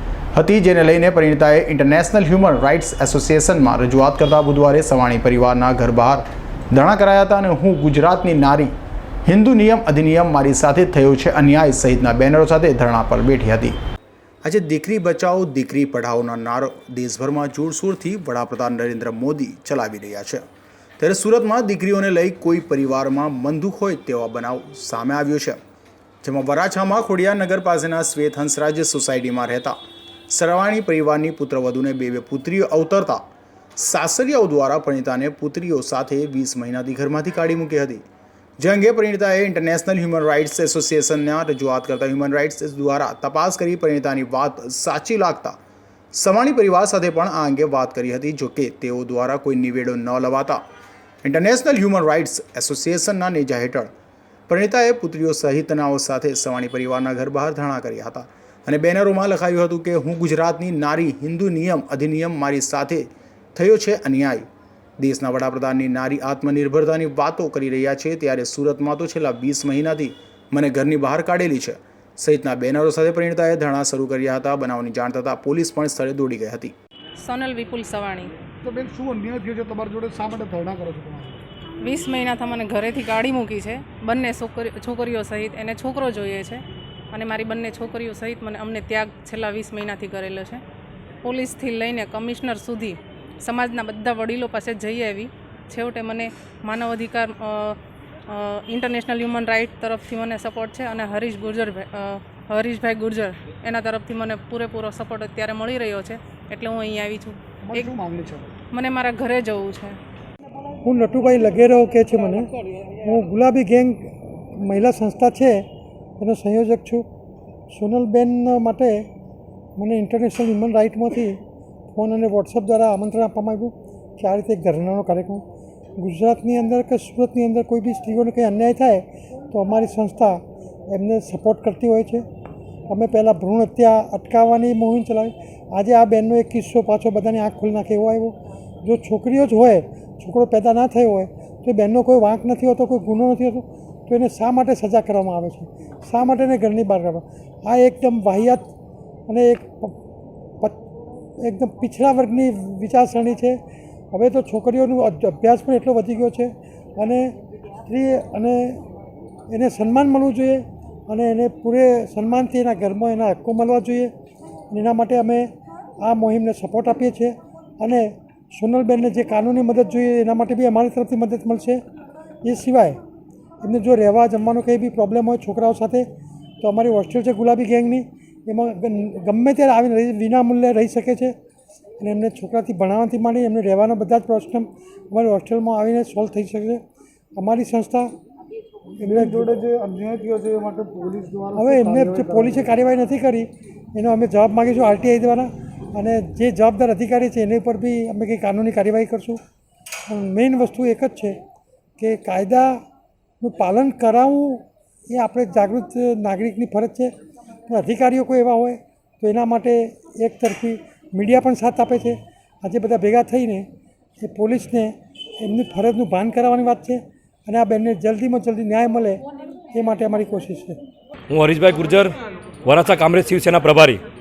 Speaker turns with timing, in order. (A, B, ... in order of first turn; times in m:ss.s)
0:00.4-0:08.7 A
0:09.3-0:13.8 A
0:14.4-0:20.4 A
0:21.0-0:25.6 A
0:26.2-0:29.8 A
0:30.3-0:33.2 A
0:33.8-0:38.0 A
0:38.6-0:45.6 A
0:46.1-0:50.6 A
0:51.2-0:53.9 A
0:54.5-1:04.4 A
1:05.0-1:16.7 A
1:17.2-1:18.3 B
1:18.6-1:21.4 C
1:21.8-1:26.6 B
1:27.1-1:30.6 B
1:31.2-1:37.7 B
1:38.3-1:47.9 B
1:47.6-1:48.5 C
1:48.7-1:50.0 B
1:50.8-1:55.6 D
1:56.2-1:57.0 D
1:57.7-1:59.1 D
1:59.8-2:01.4 D
2:01.9-2:05.4 D
2:06.0-2:12.2 D
2:12.9-2:28.6 D
2:29.3-2:30.0 D
2:31.4-2:33.6 D
2:34.1-2:37.3 D
2:37.9-2:38.8 D
2:39.5-2:44.1 D
2:44.7-2:45.5 D
2:46.0-2:51.8 D
2:52.4-2:53.0 D
2:53.6-2:56.0 D
2:56.6-3:01.3 D
3:02.0-3:06.8 D
3:07.4-3:08.1 D
3:09.0-3:12.7 C
3:09.0-3:09.5 D
3:11.6-3:19.4 D
3:20.1-3:21.4 D
3:22.0-3:22.8 D
3:23.4-3:27.1 D
3:27.7-3:33.6 D
3:34.2-3:39.2 D
3:39.7-3:40.8 D
3:41.3-3:44.0 E